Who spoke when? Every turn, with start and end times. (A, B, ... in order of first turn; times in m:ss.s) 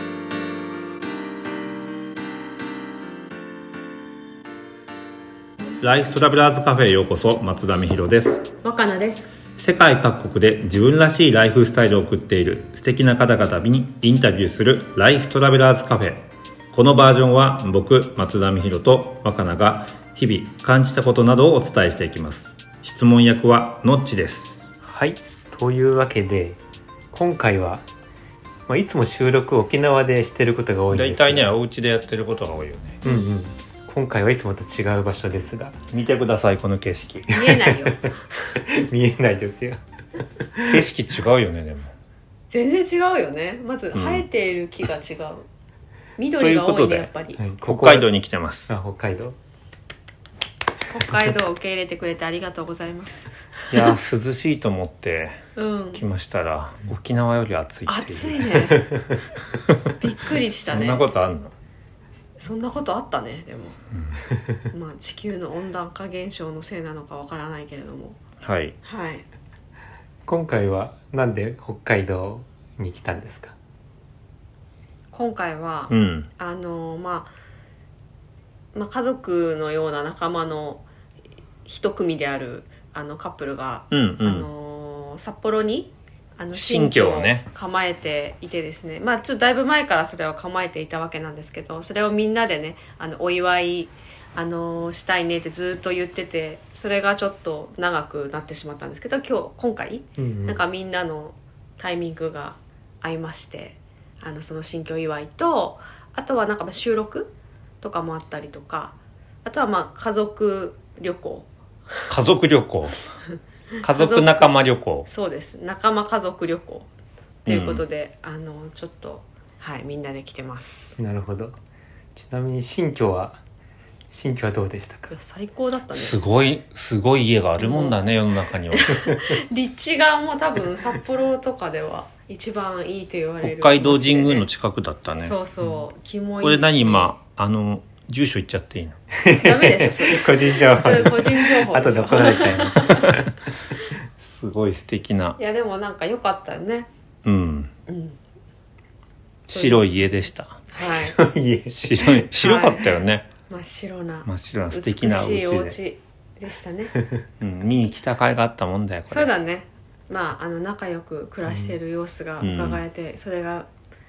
0:05.8-0:08.6 A
0:08.6-0:09.4 B
0:09.6-0:24.7 A
0:24.8-0:26.6 C
0:27.1-0:27.8 C
0:28.7-0:31.5 C
0:30.9-0:33.0 A
0:33.0-0:35.8 C
0:35.9-0:37.3 A
0:37.3-0:38.1 B
0:37.3-0:39.8 C
0:40.5-0:40.8 C
0:40.6-0:41.9 A
0:42.5-0:45.4 B
0:43.9-0:44.2 A
0:46.2-0:47.4 B
0:46.4-0:47.1 A
0:47.4-0:48.1 C
0:47.6-0:48.7 A
0:48.7-0:49.4 C
0:50.9-0:53.9 B
0:53.7-0:55.4 A
0:55.6-0:56.0 B
0:55.9-0:58.7 A
0:57.8-0:58.9 B
1:00.0-1:01.0 B
1:00.7-1:01.5 A
1:02.4-1:03.8 B
1:03.9-1:04.2 A
1:04.7-1:08.2 B
1:08.4-1:08.7 A
1:08.8-1:09.2 B
1:10.2-1:13.5 C
1:15.1-1:17.3 B
1:15.9-1:16.3 A
1:18.7-1:20.8 B
1:21.6-1:52.1 B
1:23.9-1:24.5 A
1:26.5-1:27.5 A
1:40.2-1:40.6 C
1:52.1-1:53.1 A
1:53.8-1:54.5 B
1:53.8-1:55.1 A
1:55.0-1:56.9 B
1:57.4-1:57.8 A
1:57.4-2:01.0 B
2:01.0-2:01.6 C
2:02.1-2:03.4 C
2:04.1-2:05.1 C
2:05.1-2:06.2 B
2:05.9-2:09.0 A
2:07.6-2:08.0 B
2:08.8-2:14.5 B
2:13.4-2:15.4 A
2:15.2-2:17.1 B
2:16.4-2:19.0 A
2:19.2-2:23.4 C
2:19.3-2:23.1 B
2:24.2-2:25.4 A
2:25.4-2:26.9 B
2:27.2-2:27.7 A
2:27.9-2:28.2 B
2:29.5-2:30.6 A
2:29.5-2:29.9 B
2:30.7-2:31.2 B
2:30.8-2:32.2 C
2:31.7-2:33.3 A
2:32.3-2:32.9 B
2:33.5-2:36.9 B
2:34.2-2:35.8 A
2:37.4-2:39.3 A
2:39.1-2:43.7 B
2:41.5-2:41.7 C
2:42.4-2:42.8 A